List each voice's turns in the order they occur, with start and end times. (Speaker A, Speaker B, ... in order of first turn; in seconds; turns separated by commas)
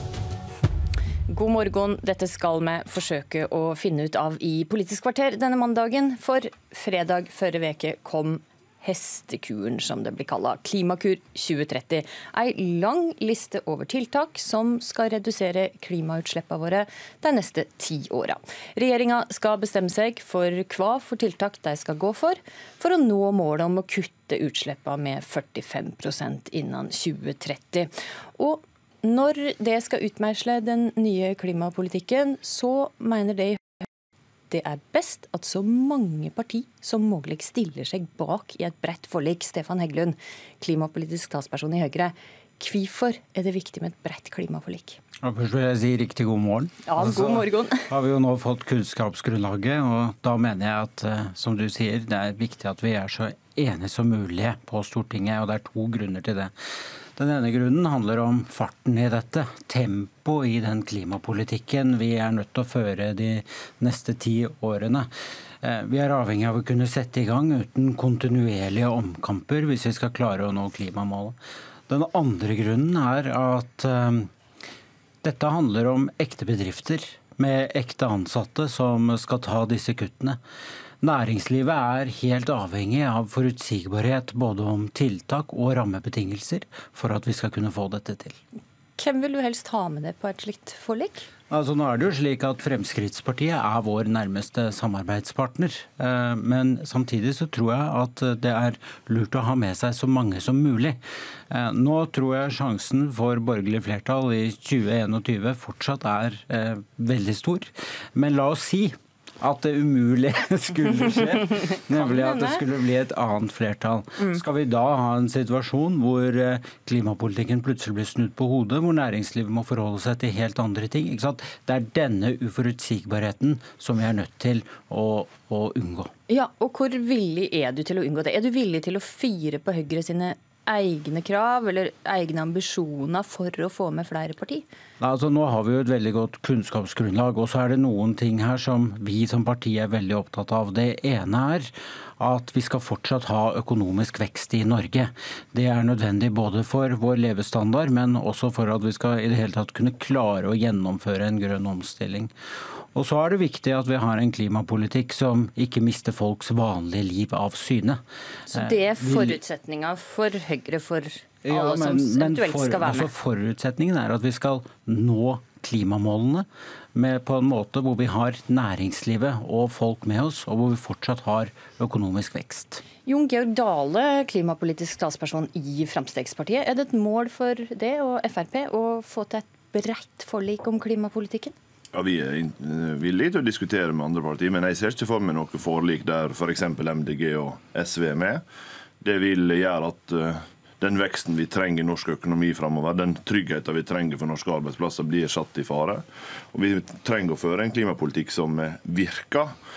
Speaker A: 1.3-33.6, Speaker A: 34.5-45.0, Speaker B: 45.2-56.5, Speaker A: 46.9-47.8, Speaker B: 57.1-65.1, Speaker B: 65.6-71.4, Speaker B: 71.9-74.3, Speaker B: 75.2-80.4, Speaker B: 81.0-88.4, Speaker A: 89.0-91.3, Speaker B: 91.5-126.1, Speaker A: 111.9-112.6, Speaker A: 126.3-134.6, Speaker B: 135.0-152.3, Speaker B: 152.9-158.0, Speaker A: 158.5-163.1, Speaker B: 158.5-159.4, Speaker B: 161.4-172.8, Speaker A: 173.1-181.5, Speaker C: 181.9-188.4, Speaker C: 189.0-199.5